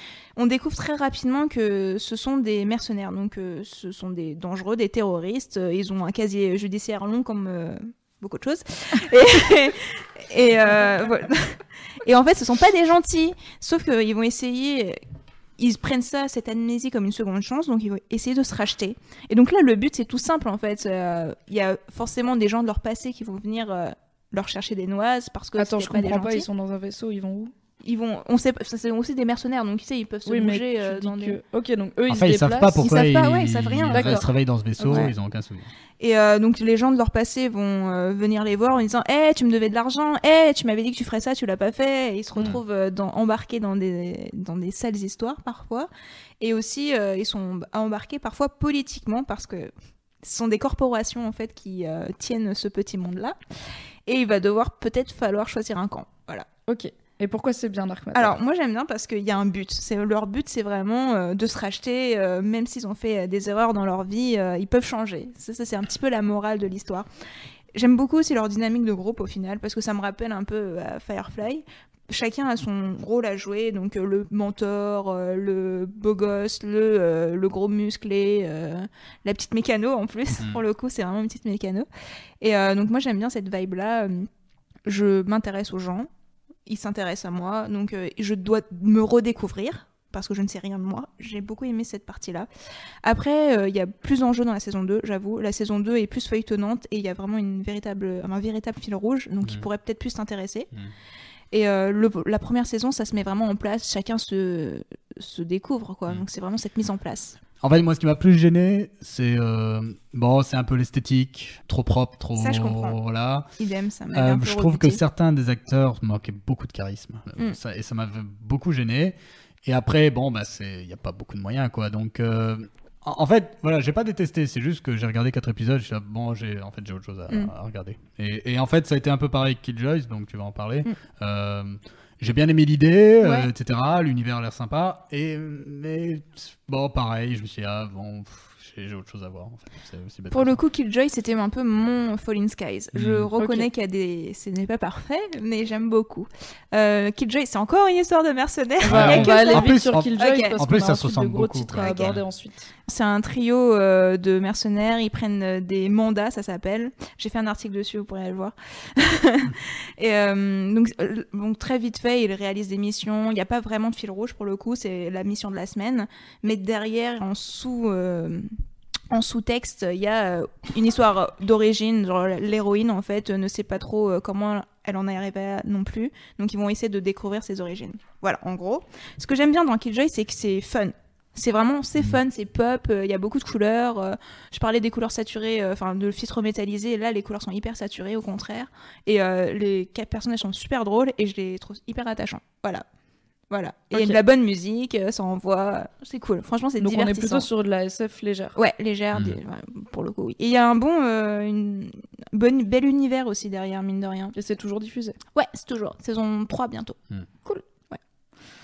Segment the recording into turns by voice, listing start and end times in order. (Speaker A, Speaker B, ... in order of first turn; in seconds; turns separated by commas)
Speaker A: 0.4-15.0, Speaker A: 15.6-26.5, Speaker B: 25.6-27.5, Speaker A: 27.8-31.4, Speaker B: 30.3-32.9, Speaker C: 32.1-35.7, Speaker A: 32.8-34.2, Speaker B: 33.9-34.3, Speaker B: 34.8-35.1, Speaker A: 34.9-35.1, Speaker A: 36.0-45.9, Speaker A: 46.4-49.7, Speaker A: 50.2-53.4, Speaker A: 54.1-56.5, Speaker B: 56.7-58.4, Speaker A: 58.1-67.1, Speaker A: 67.7-81.9, Speaker A: 82.4-84.3, Speaker A: 84.9-86.1, Speaker A: 86.7-92.5, Speaker A: 93.0-100.7, Speaker A: 101.5-107.4, Speaker C: 107.6-113.5, Speaker A: 112.4-113.0, Speaker A: 113.6-115.0, Speaker C: 114.1-140.6, Speaker A: 133.2-133.5, Speaker A: 140.3-150.6, Speaker C: 142.9-143.4, Speaker B: 143.4-143.7, Speaker C: 148.8-152.2, Speaker B: 148.8-152.7, Speaker A: 151.8-152.1, Speaker A: 152.9-168.6, Speaker A: 169.1-192.8, Speaker A: 193.5-197.5, Speaker B: 196.8-198.6, Speaker A: 198.6-204.3, Speaker B: 204.4-205.2, Speaker A: 205.3-207.0